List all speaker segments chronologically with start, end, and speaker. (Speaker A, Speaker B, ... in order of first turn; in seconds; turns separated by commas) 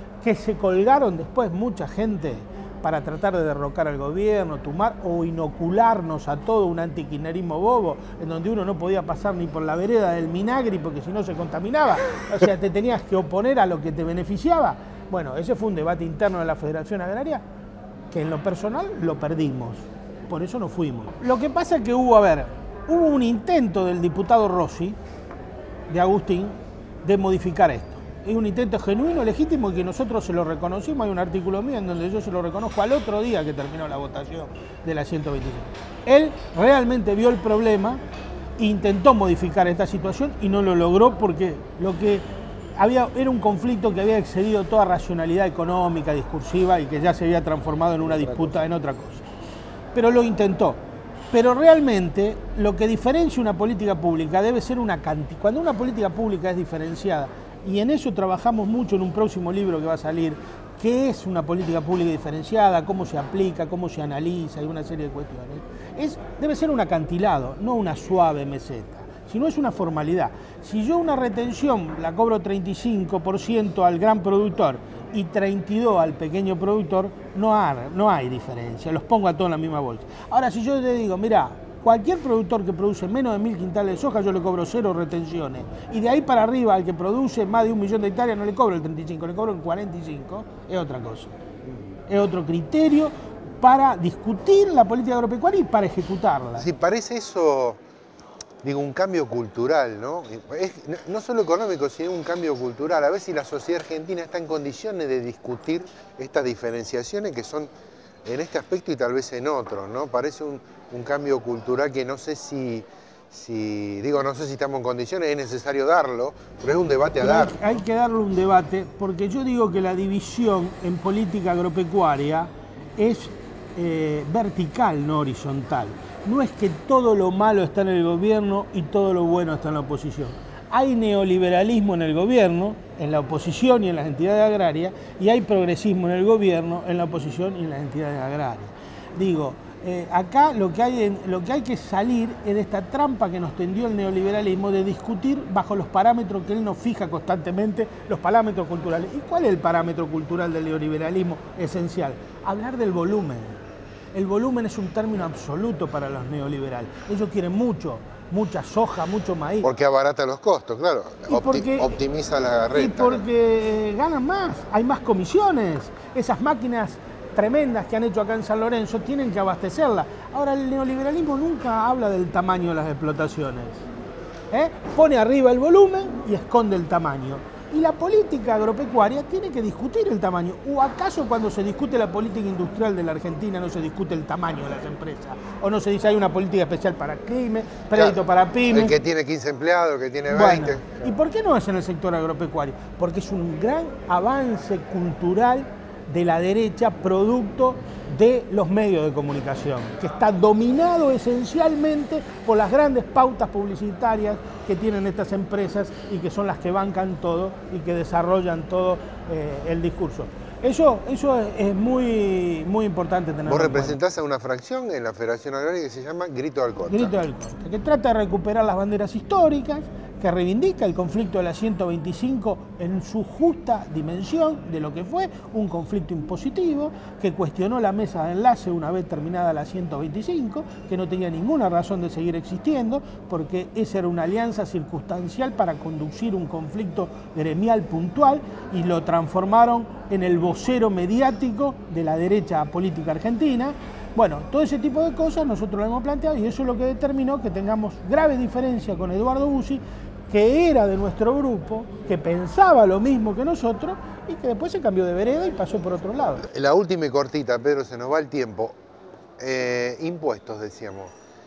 Speaker A: 0.2-17.4, Speaker A: 18.1-25.0, Speaker A: 25.9-38.0, Speaker A: 38.6-42.2, Speaker A: 42.8-49.2, Speaker A: 49.9-91.3, Speaker A: 92.1-96.7, Speaker B: 96.6-97.8, Speaker B: 98.6-107.7, Speaker B: 108.2-117.5, Speaker A: 117.2-153.6, Speaker A: 154.1-159.7, Speaker B: 159.6-163.2, Speaker A: 161.3-162.0, Speaker A: 162.7-173.9, Speaker A: 174.5-188.9, Speaker B: 187.9-190.9, Speaker A: 190.3-214.0, Speaker B: 213.4-217.1, Speaker A: 216.9-256.4, Speaker B: 256.4-258.8, Speaker B: 259.4-261.1